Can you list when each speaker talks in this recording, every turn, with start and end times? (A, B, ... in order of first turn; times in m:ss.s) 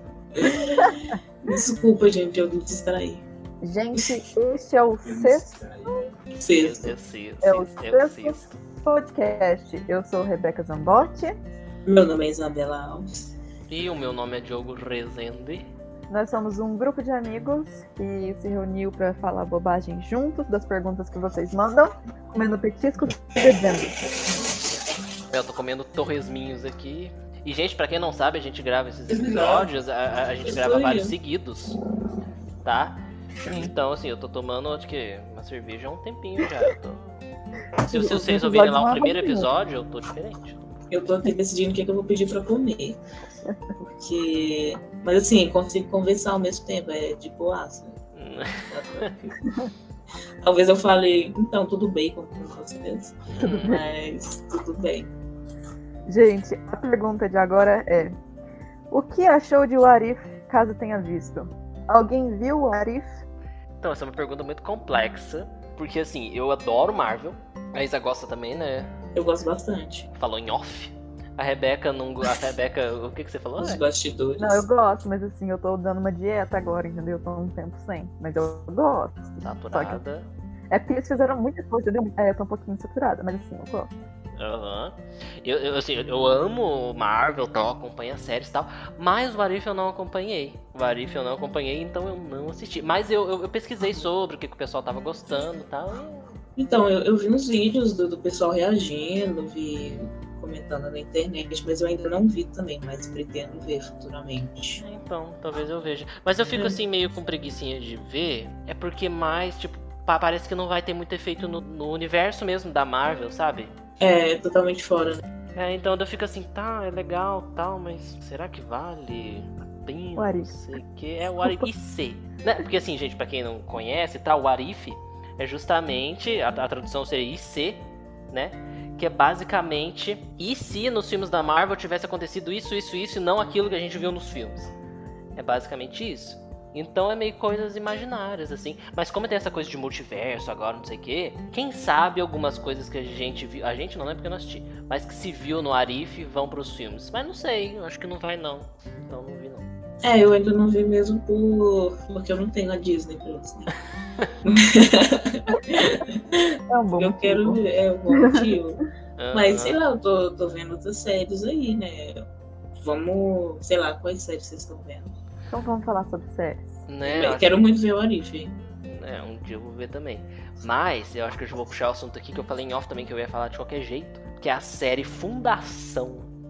0:00.4-0:03.2 A
0:03.6-0:06.1 B
0:05.0-0:06.9 A
0:06.5-0:08.6 C
0:07.4-0:11.4 B
0:11.8-0:13.1 A
0:13.7-0:15.7 C
0:16.1-0:24.0 B
0:25.3-0:31.8 C
0:29.1-0:29.7 A
0:30.4-0:31.1 A
0:32.6-0:37.2 C
0:33.4-0:33.7 B
0:37.8-0:39.5 B
0:37.9-0:40.7 C
0:40.9-0:43.0 A
0:43.8-0:48.0 A
0:48.2-0:49.1 C
0:48.7-0:49.4 A
0:50.4-0:55.1 A
0:53.3-0:53.9 C
0:53.4-0:53.8 B
0:56.1-0:58.1 B
0:58.9-1:03.2 B
1:03.8-1:08.9 C
1:09.1-1:10.1 A
1:10.1-1:13.8 C
1:13.6-1:14.6 A
1:14.4-1:20.0 B
1:19.4-1:20.3 C
1:20.7-1:23.9 B
1:24.4-1:36.3 C
1:36.6-1:44.8 A
1:44.8-1:53.7 C
1:54.0-1:55.2 A
1:55.5-2:14.7 C
2:00.2-2:00.6 B
2:01.4-2:01.7 B
2:15.4-2:29.6 C
2:30.0-2:33.7 A
2:34.4-2:36.2 A
2:36.3-2:38.5 B
2:37.0-2:38.8 A
2:39.2-2:39.8 C
2:39.3-2:42.2 A
2:42.8-2:45.1 A
2:45.5-2:46.7 B
2:46.9-2:47.5 C
2:47.0-2:48.6 A
2:48.8-2:56.3 C